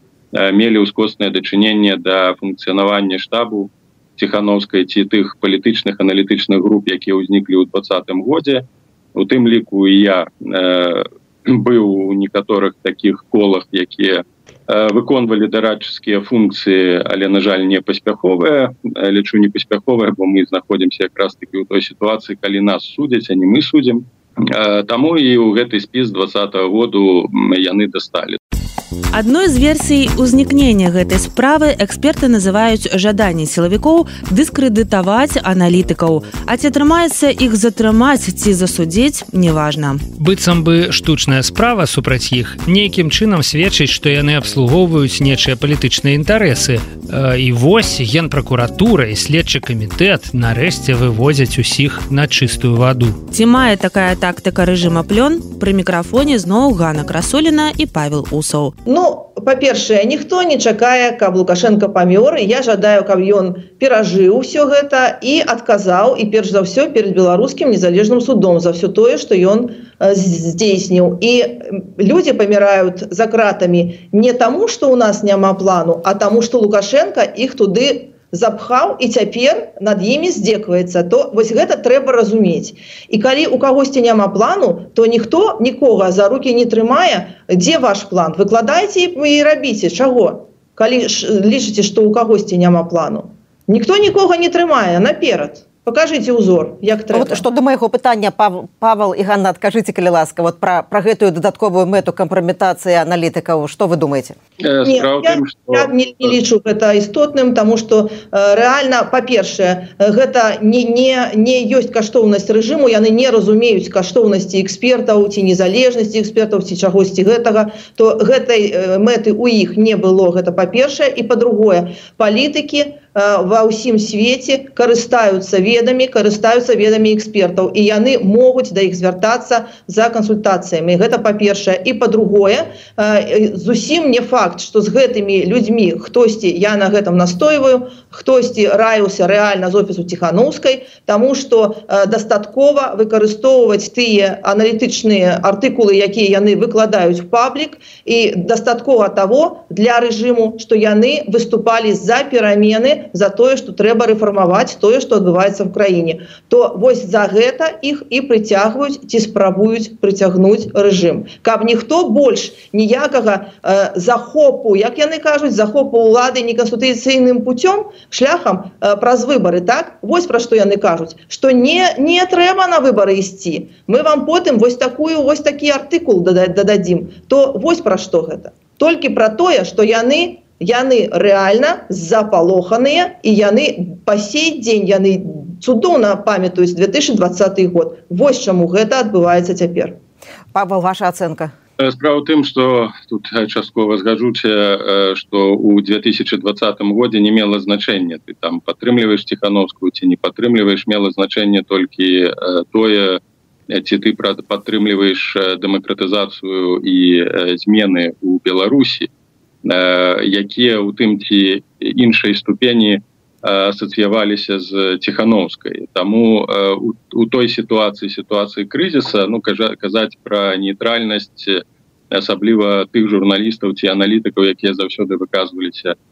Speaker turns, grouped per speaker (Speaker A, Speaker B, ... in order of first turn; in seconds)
Speaker A: 0.3-8.7, 9.2-28.4, 104.6-106.3, 191.8-209.1, 209.7-225.9
Speaker B: 29.1-40.0, 53.3-58.8
Speaker C: 40.2-53.2
Speaker D: 58.9-97.4, 104.8-190.0
Speaker E: 97.1-104.4, 190.5-191.5